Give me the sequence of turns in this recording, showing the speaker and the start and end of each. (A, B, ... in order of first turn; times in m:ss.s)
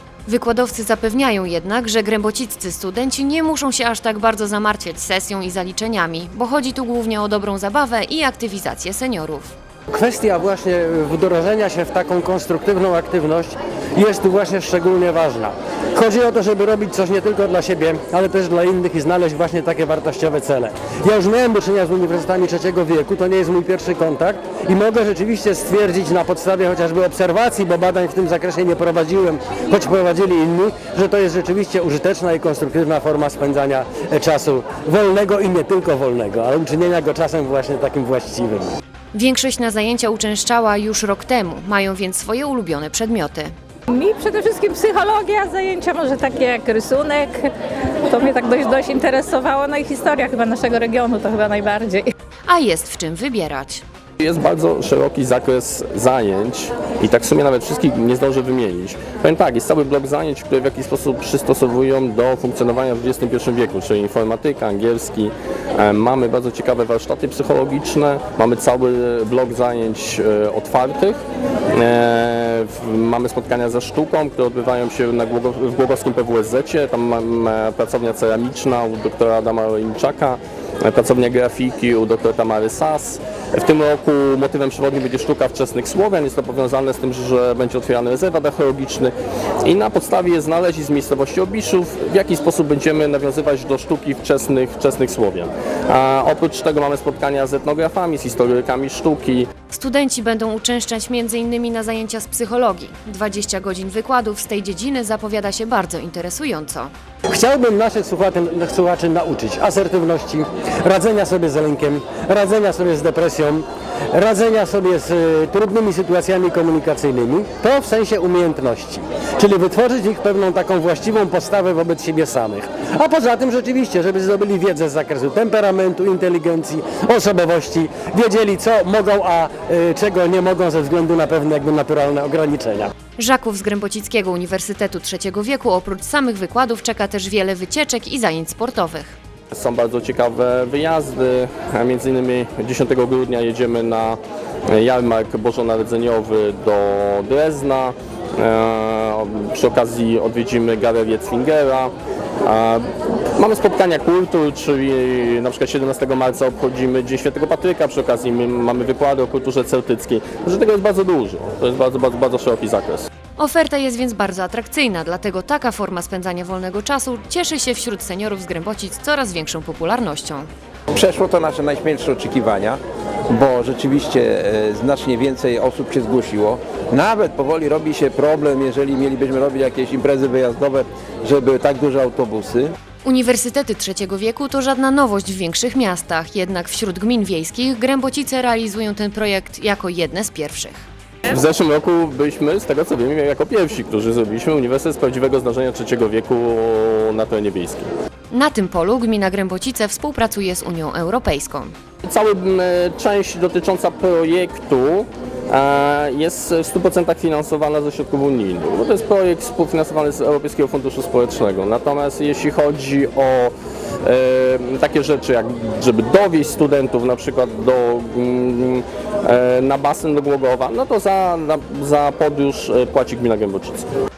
0:00.3-0:09.5 A
0:09.9-0:38.8 B
0:39.1-0:43.5 A
0:43.9-0:47.5 C
0:48.1-0:52.1 C
0:52.5-0:53.8 A
0:54.2-1:11.2 D
1:11.7-1:29.1 D
1:29.6-1:39.5 D
1:39.7-1:46.9 A
1:47.3-2:12.9 B
2:13.2-2:19.2 A
2:19.5-2:24.2 D
2:24.7-2:43.1 D
2:43.4-2:50.5 A
2:50.9-3:02.7 E
3:03.0-3:10.8 A
3:11.3-3:17.9 D
3:18.3-3:21.7 A
3:22.0-3:33.5 D
3:34.0-3:43.9 D